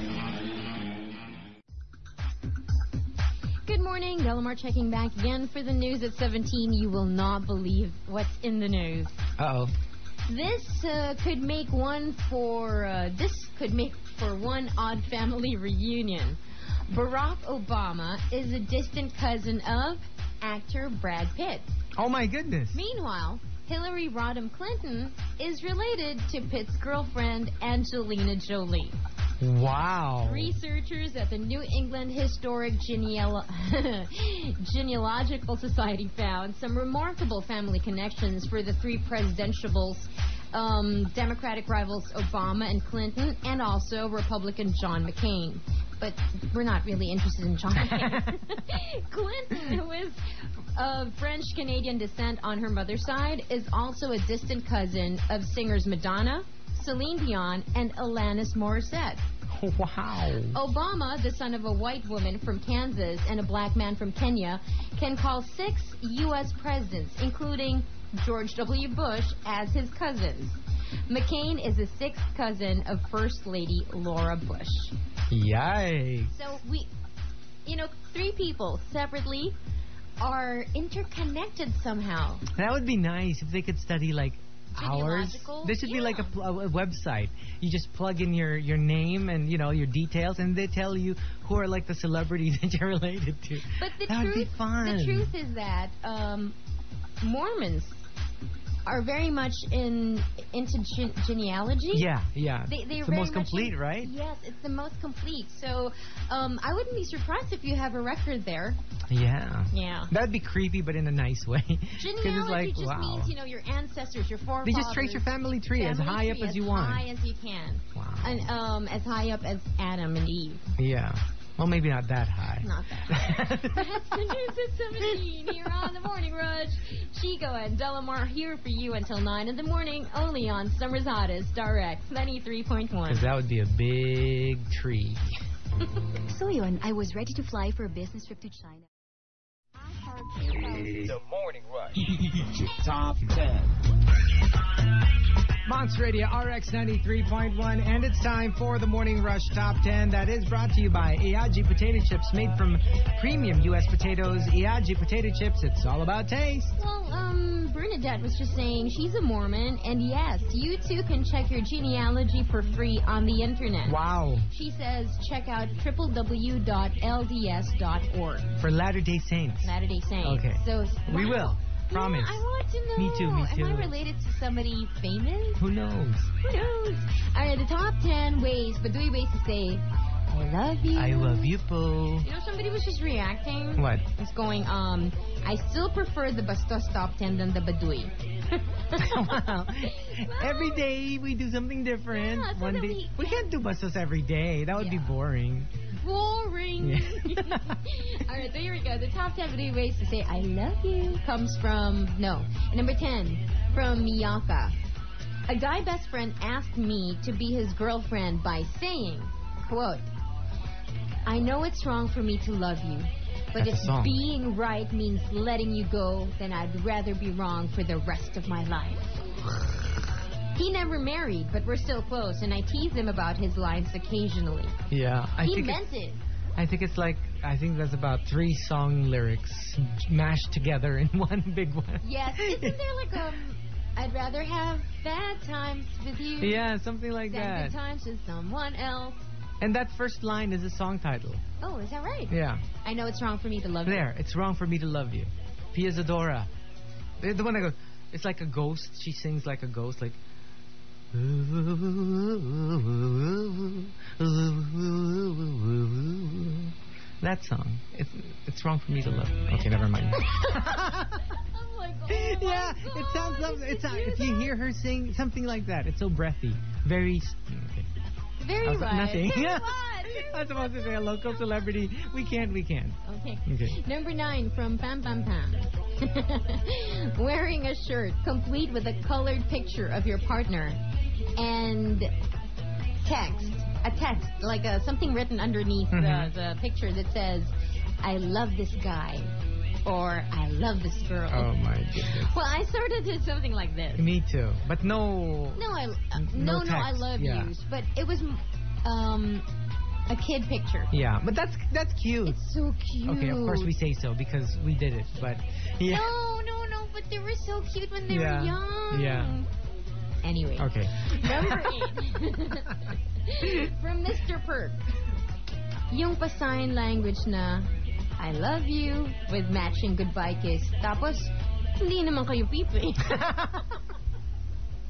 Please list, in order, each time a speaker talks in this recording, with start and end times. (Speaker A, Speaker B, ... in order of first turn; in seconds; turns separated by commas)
Speaker A: 3.6-9.2, Speaker B: 9.4-9.7, Speaker A: 10.3-21.7, Speaker B: 21.9-22.8, Speaker A: 22.7-28.9, Speaker B: 29.4-30.6, Speaker A: 30.2-59.3, Speaker B: 47.8-48.4, Speaker B: 59.5-60.6, Speaker A: 60.5-74.9, Speaker B: 75.3-76.3, Speaker A: 76.3-76.9, Speaker A: 77.7-79.6, Speaker A: 80.2-82.4, Speaker B: 82.5-95.3, Speaker A: 84.7-86.3, Speaker A: 93.7-96.5, Speaker A: 97.2-98.0, Speaker A: 98.8-102.1, Speaker B: 101.9-104.1, Speaker A: 102.7-108.8, Speaker B: 109.1-113.3, Speaker A: 109.7-110.1, Speaker A: 112.0-120.7, Speaker B: 114.6-117.0, Speaker B: 117.9-118.5, Speaker B: 120.8-124.4, Speaker A: 122.6-133.3, Speaker B: 133.1-135.3, Speaker C: 136.3-138.8, Speaker C: 139.8-141.0, Speaker D: 140.8-143.7, Speaker B: 145.6-156.8, Speaker A: 156.8-168.6, Speaker B: 163.8-164.5, Speaker B: 168.6-172.4, Speaker A: 169.6-175.6, Speaker B: 172.9-173.9, Speaker B: 175.6-176.3, Speaker A: 176.4-181.6, Speaker B: 180.9-182.3, Speaker A: 182.2-190.8, Speaker B: 183.8-184.1, Speaker B: 188.9-195.7, Speaker A: 192.1-193.5, Speaker A: 194.7-195.1, Speaker A: 195.9-204.8, Speaker B: 196.8-197.8, Speaker A: 205.5-210.1, Speaker A: 211.2-219.3, Speaker B: 213.6-214.2, Speaker A: 220.5-224.8, Speaker B: 224.9-225.8, Speaker A: 225.4-226.2, Speaker B: 226.6-232.8, Speaker A: 232.0-236.6, Speaker B: 236.4-237.8, Speaker A: 237.3-239.2, Speaker B: 239.6-241.4, Speaker A: 241.6-244.1, Speaker B: 242.3-242.6, Speaker B: 243.8-246.5, Speaker B: 247.2-250.2, Speaker B: 251.1-261.3, Speaker A: 260.2-264.5, Speaker B: 262.1-267.9, Speaker A: 268.4-271.4, Speaker B: 268.6-273.8, Speaker A: 273.0-280.8, Speaker A: 281.4-282.1, Speaker A: 283.0-289.3, Speaker B: 285.9-286.3, Speaker A: 289.8-291.5, Speaker B: 291.3-292.3, Speaker A: 292.0-294.1, Speaker B: 293.9-297.5, Speaker A: 295.6-299.5, Speaker A: 300.1-300.9, Speaker B: 300.9-302.4, Speaker A: 302.2-303.7, Speaker B: 303.0-306.1, Speaker A: 305.8-309.5, Speaker B: 308.1-309.4, Speaker A: 310.2-314.8, Speaker B: 310.6-311.9, Speaker A: 315.9-323.6, Speaker B: 323.0-323.6